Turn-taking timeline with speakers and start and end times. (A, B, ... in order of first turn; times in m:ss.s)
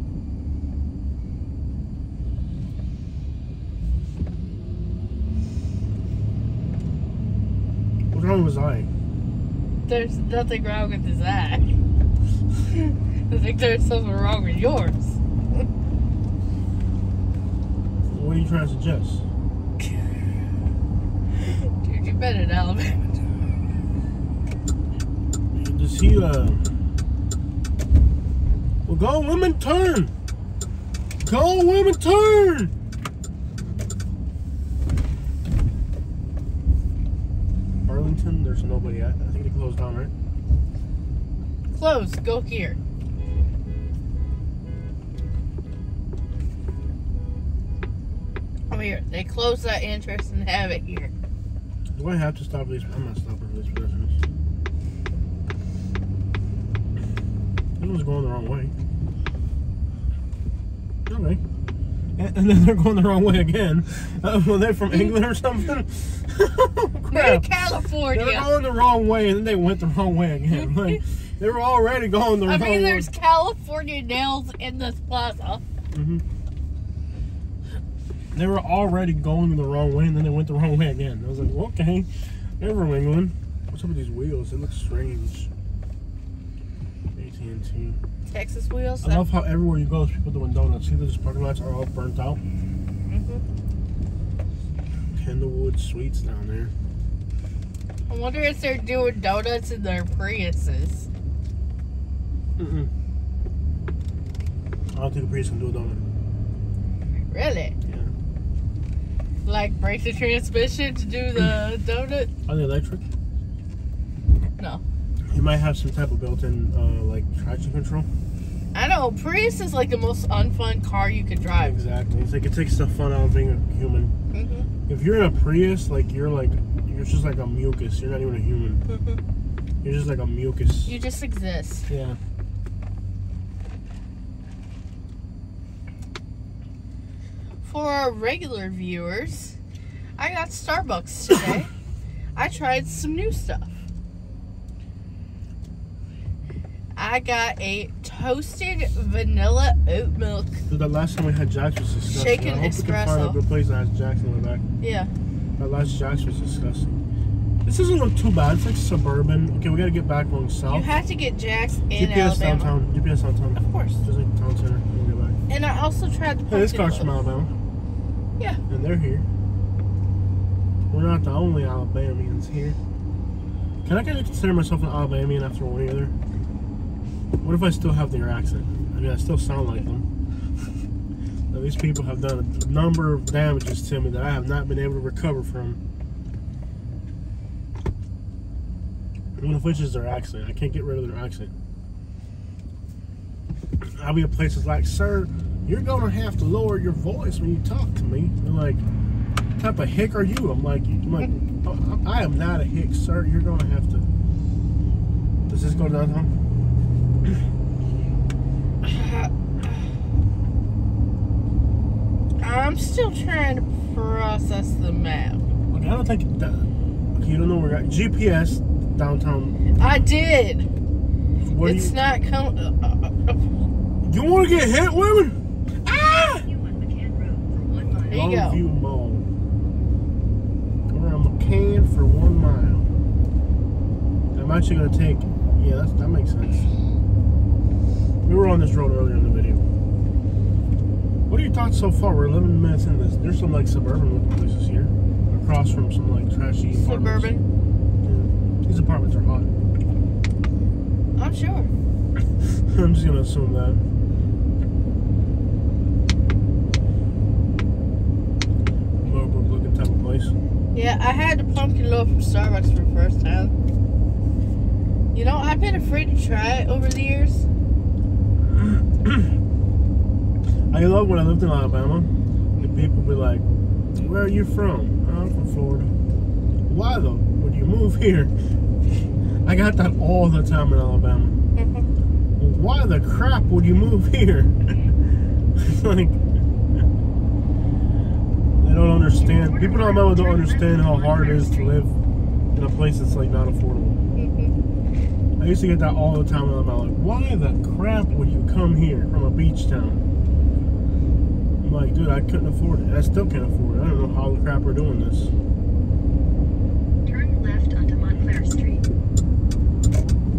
0:08.1-0:08.9 A
0:09.9-0:11.7 B
0:12.7-0:15.6 B
0:18.1-0:19.2 A
0:19.8-0:20.3 B
0:21.4-0:23.3 B
0:25.5-0:26.7 A
0:28.9-0:30.1 A
0:31.2-0:32.7 A
0:37.9-0:40.1 A
0:41.7-0:42.8 B
0:48.7-0:51.1 B
0:51.9-0:54.2 A
0:57.8-0:58.7 A
1:01.1-1:01.4 A
1:02.2-1:07.5 A
1:04.9-1:05.2 B
1:07.1-1:08.5 B
1:08.1-1:13.1 A
1:10.6-1:11.0 B
1:12.5-1:15.6 B
1:15.9-1:16.2 A
1:18.3-1:25.5 A
1:27.2-1:28.0 A
1:28.3-1:29.3 B
1:29.0-1:32.4 A
1:33.1-1:33.4 B
1:35.1-1:36.7 A
1:38.1-1:41.1 B
1:42.6-1:42.9 A
1:44.9-1:46.0 A
1:47.3-1:47.8 B
1:47.9-1:48.1 A
1:49.4-1:52.3 B
1:52.5-1:53.1 A
1:55.3-1:58.1 A
1:58.7-2:01.8 B
2:01.6-2:04.1 A
2:04.3-2:04.7 B
2:04.9-2:08.8 A
2:08.9-2:09.2 B
2:09.8-2:10.9 A
2:10.9-2:11.9 B
2:11.9-2:12.2 A
2:17.6-2:19.6 B
2:20.2-2:21.7 B
2:22.4-2:23.7 B
2:27.0-2:30.6 B
2:30.7-2:34.6 A
2:32.1-2:33.4 B
2:34.8-2:35.1 B
2:35.6-2:37.0 A
2:37.6-2:40.9 A
2:40.7-2:42.7 B
2:41.9-2:45.4 A
2:43.6-2:44.0 B
2:45.5-2:47.2 B
2:46.5-2:47.5 A
2:48.7-2:49.3 A
2:50.9-2:52.8 A
2:53.8-2:56.2 A
2:57.4-3:00.1 A
3:01.5-3:05.8 A
3:09.4-3:11.5 A
3:13.8-3:18.8 A
3:19.6-3:24.1 A
3:25.5-3:26.3 A
3:28.8-3:29.9 B
3:32.4-3:35.4 B
3:35.7-3:39.6 A
3:39.8-3:40.7 B
3:41.4-3:42.0 A
3:41.6-3:43.7 B
3:44.0-3:46.5 A
3:45.9-3:48.3 C
3:48.1-3:48.6 B
3:48.1-3:49.3 A
3:50.9-3:52.9 A
3:54.3-3:56.7 A
3:58.2-3:59.6 A
4:01.3-4:07.3 A
4:06.7-4:07.4 B
4:08.0-4:09.5 A
4:11.2-4:11.7 B
4:12.5-4:13.8 A
4:19.0-4:20.4 A
4:20.7-4:23.5 B
4:25.1-4:27.5 B
4:28.5-4:29.3 A
4:30.7-4:33.4 A
4:34.0-4:35.9 A
4:36.7-4:38.3 A
4:39.4-4:41.4 A
4:41.6-4:41.9 B
4:42.4-4:45.0 A
4:45.6-4:46.2 A
4:48.6-4:51.9 A
4:49.2-4:51.8 C
4:52.5-4:54.0 A
4:54.2-4:54.5 B
4:55.4-5:00.0 A
5:01.6-5:05.3 A
5:07.0-5:08.8 C